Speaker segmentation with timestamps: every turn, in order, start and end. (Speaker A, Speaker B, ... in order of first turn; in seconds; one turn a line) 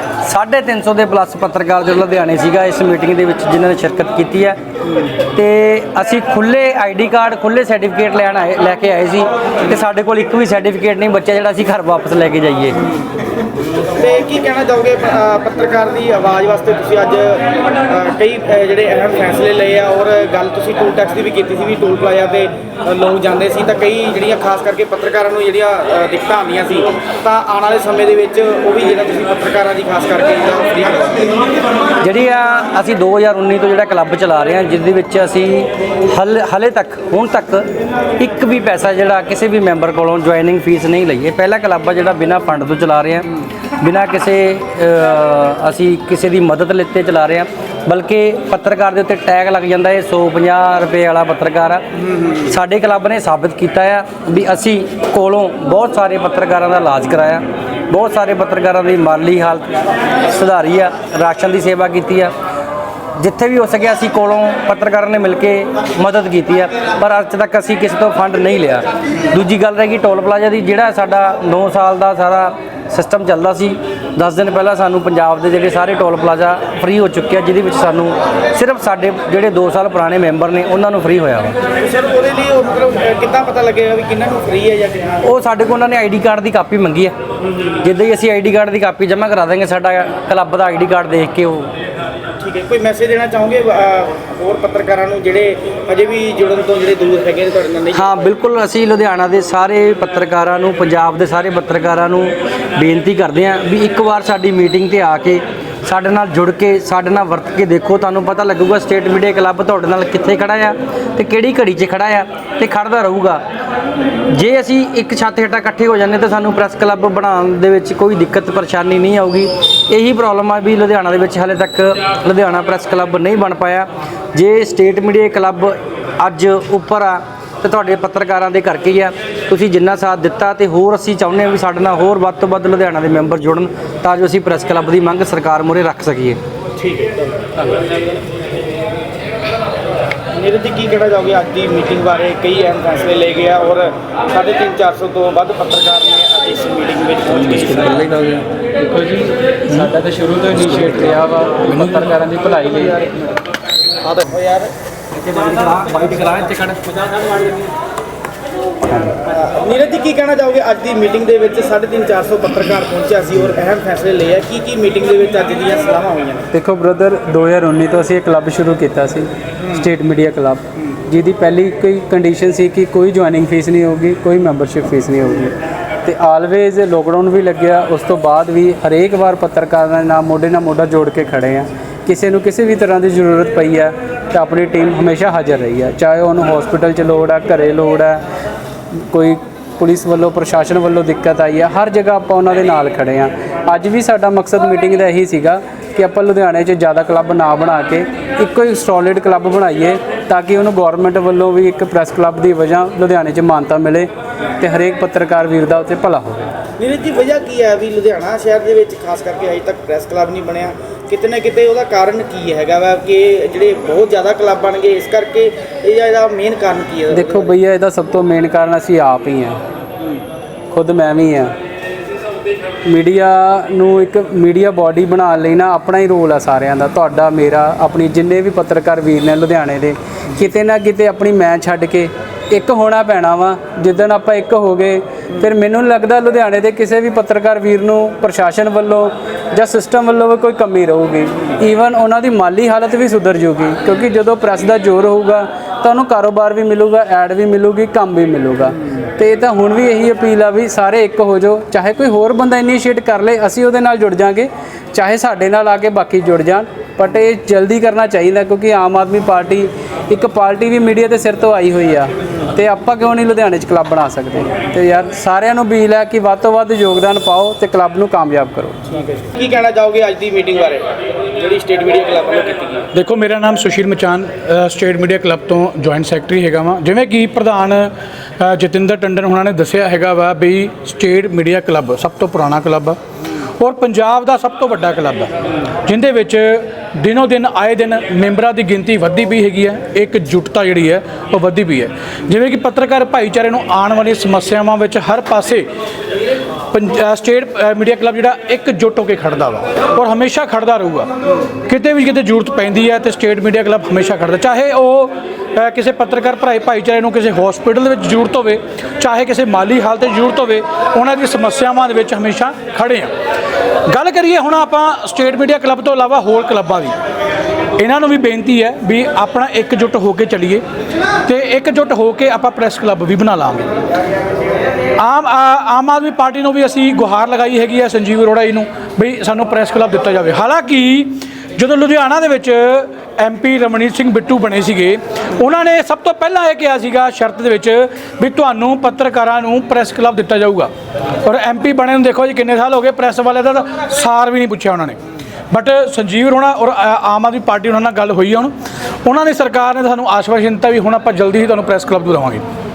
Speaker A: 0.2-4.6
Speaker A: 5.3-12.8
Speaker B: 13.9-31.5
Speaker A: 32.0-37.7
Speaker A: 38.2-59.7
Speaker A: 60.2-62.3
Speaker A: 63.1-81.6
Speaker B: 81.7-85.2
Speaker A: 85.2-87.1
Speaker A: 87.8-91.7
Speaker B: 92.4-98.3
Speaker A: 97.9-113.4
Speaker A: 114.3-136.4
Speaker B: 136.8-137.5
Speaker B: 140.3-148.0
Speaker A: 147.4-148.4
Speaker C: 148.8-153.1
Speaker D: 151.7-152.0
Speaker B: 154.0-154.7
Speaker A: 155.2-157.5
Speaker C: 158.9-159.2
Speaker B: 159.2-166.5
Speaker C: 166.5-188.2
Speaker C: 189.0-206.5
Speaker B: 206.8-217.5
Speaker C: 217.1-219.6
Speaker C: 220.7-221.5
Speaker C: 222.8-268.9
Speaker B: 268.9-272.9
Speaker D: 272.9-283.0
Speaker D: 283.6-285.3
Speaker D: 285.8-295.7
Speaker D: 296.7-301.1
Speaker D: 301.6-313.1
Speaker D: 313.9-316.9
Speaker D: 317.8-320.6
Speaker D: 321.2-323.7
Speaker D: 325.0-340.7
Speaker D: 341.2-345.0
Speaker D: 345.5-348.5
Speaker D: 349.0-352.4